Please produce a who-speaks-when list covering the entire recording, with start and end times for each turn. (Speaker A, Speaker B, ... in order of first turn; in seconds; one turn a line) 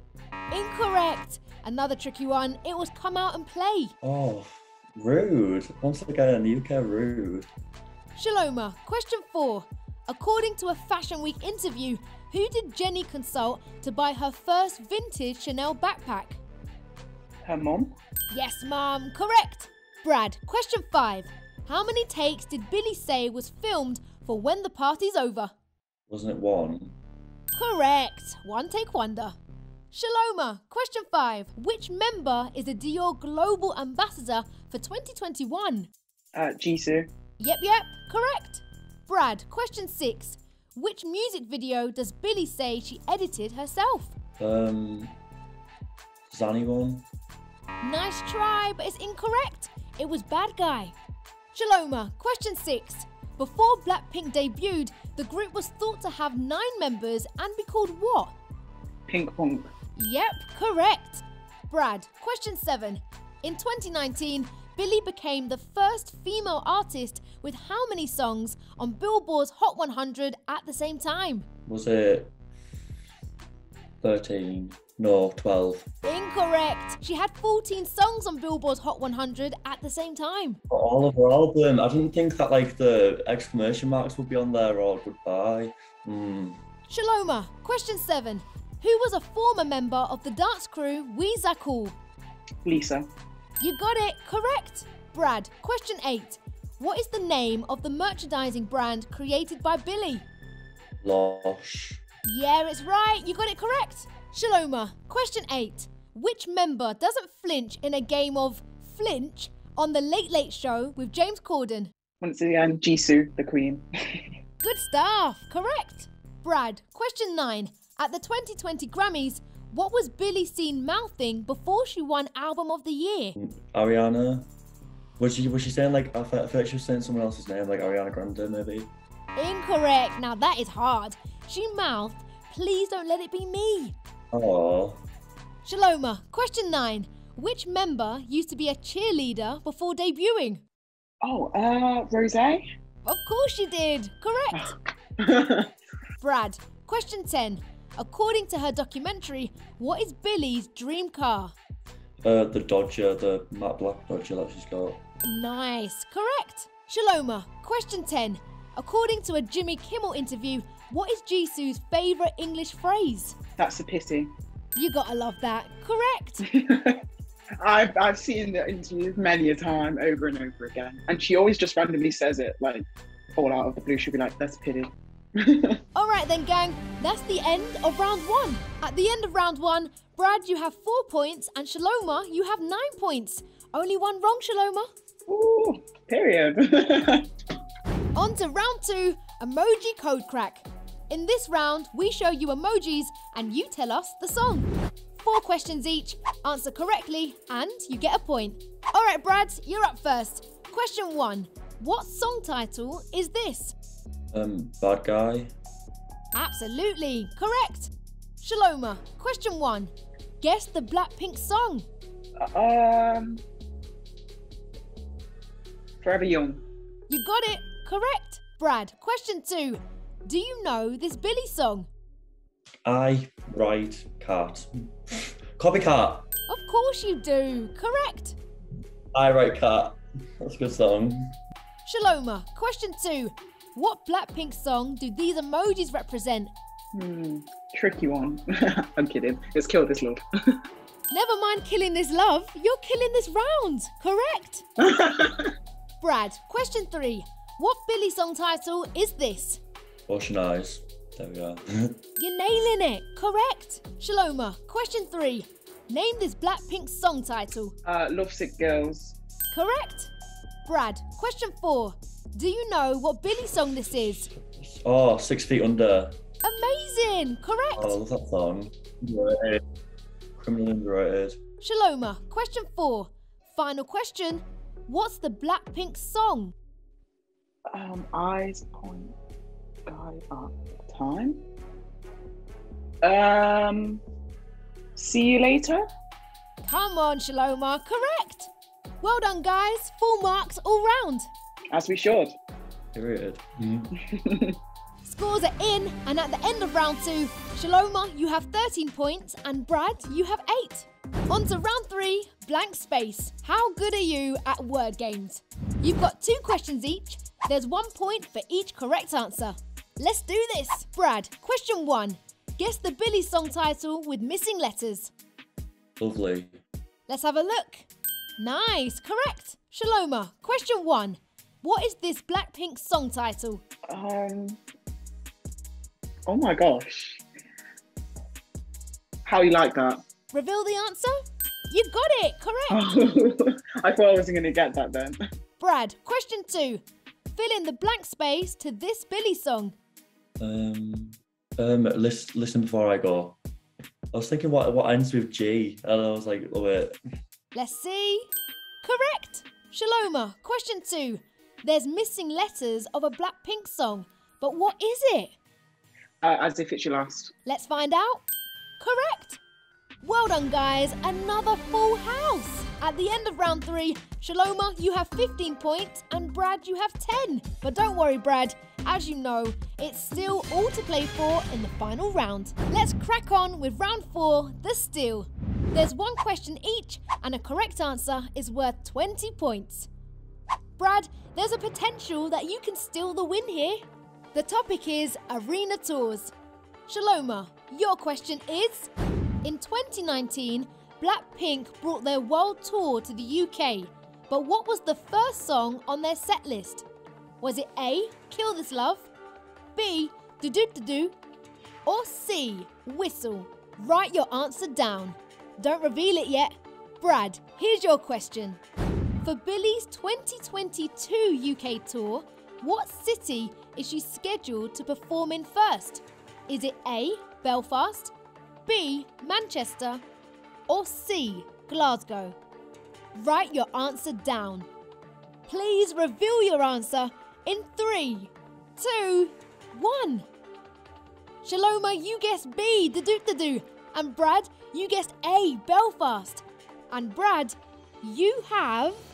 Speaker A: 0.5-3.9
Speaker B: 4.0-7.5
Speaker A: 8.2-16.4
Speaker C: 17.4-17.9
Speaker A: 18.3-25.5
Speaker B: 26.1-26.9
Speaker A: 27.5-29.4
Speaker A: 29.9-35.9
Speaker C: 36.3-37.1
Speaker A: 37.4-44.1
Speaker B: 44.4-45.2
Speaker B: 46.3-47.0
Speaker A: 47.8-50.9
Speaker A: 51.5-58.3
Speaker C: 59.1-59.7
Speaker A: 60.0-71.5
Speaker B: 71.7-72.3
Speaker B: 74.0-75.9
Speaker A: 76.0-80.6
Speaker B: 80.7-86.6
Speaker A: 86.9-92.0
Speaker C: 92.6-93.1
Speaker A: 93.6-100.2
Speaker B: 101.0-102.0
Speaker A: 102.2-111.9
Speaker C: 112.2-114.2
Speaker A: 114.6-123.3
Speaker B: 123.3-124.5
Speaker B: 125.2-128.9
Speaker A: 129.3-133.9
Speaker B: 134.3-135.0
Speaker A: 135.6-140.6
Speaker C: 141.2-142.6
Speaker A: 143.0-144.7
Speaker C: 144.5-145.7
Speaker A: 146.2-151.5
Speaker B: 152.2-155.0
Speaker A: 155.2-163.4
Speaker C: 163.6-164.3
Speaker A: 164.8-166.4
Speaker C: 166.4-167.0
Speaker C: 167.6-175.8
Speaker A: 175.9-184.8
Speaker C: 185.3-187.3
Speaker A: 188.1-203.7
Speaker B: 204.3-205.5
Speaker A: 206.3-211.9
Speaker C: 212.4-213.4
Speaker C: 216.0-216.6
Speaker A: 217.1-221.9
Speaker B: 222.8-226.3
Speaker A: 226.5-228.3
Speaker B: 229.1-231.3
Speaker A: 231.8-236.5
Speaker C: 236.9-240.6
Speaker A: 241.1-244.6
Speaker C: 244.8-245.5
Speaker A: 246.0-249.6
Speaker B: 250.1-252.0
Speaker A: 252.2-257.7
Speaker C: 257.8-259.2
Speaker A: 259.5-260.1
Speaker A: 260.6-264.3
Speaker B: 264.4-266.2
Speaker A: 266.4-268.0
Speaker B: 267.8-269.6
Speaker B: 270.4-271.4
Speaker A: 271.6-276.5
Speaker C: 277.7-279.1
Speaker C: 279.9-281.4
Speaker C: 283.0-284.0
Speaker C: 284.9-285.8
Speaker A: 286.6-288.5
Speaker A: 289.0-291.3
Speaker C: 291.7-292.4
Speaker B: 292.9-293.9
Speaker C: 294.0-294.6
Speaker A: 295.0-315.1
Speaker B: 316.0-316.6
Speaker A: 317.1-323.6
Speaker C: 323.9-324.6
Speaker C: 326.3-327.2
Speaker C: 329.2-330.0
Speaker A: 330.3-331.1
Speaker A: 331.7-332.9
Speaker C: 332.7-335.2
Speaker A: 335.6-336.8
Speaker A: 337.3-339.7
Speaker B: 340.4-343.4
Speaker B: 344.1-346.9
Speaker A: 347.5-348.3
Speaker A: 348.8-355.3
Speaker C: 356.2-357.3
Speaker A: 357.4-358.2
Speaker A: 358.8-359.4
Speaker A: 360.0-379.9
Speaker A: 380.8-383.8
Speaker A: 384.3-386.3
Speaker A: 386.9-388.9
Speaker A: 389.4-396.8
Speaker A: 397.4-399.1
Speaker A: 399.8-401.1
Speaker A: 401.9-408.6
Speaker A: 409.2-418.1
Speaker A: 418.7-420.0
Speaker A: 420.7-422.4
Speaker A: 423.1-424.7
Speaker A: 425.5-430.3
Speaker A: 431.4-439.0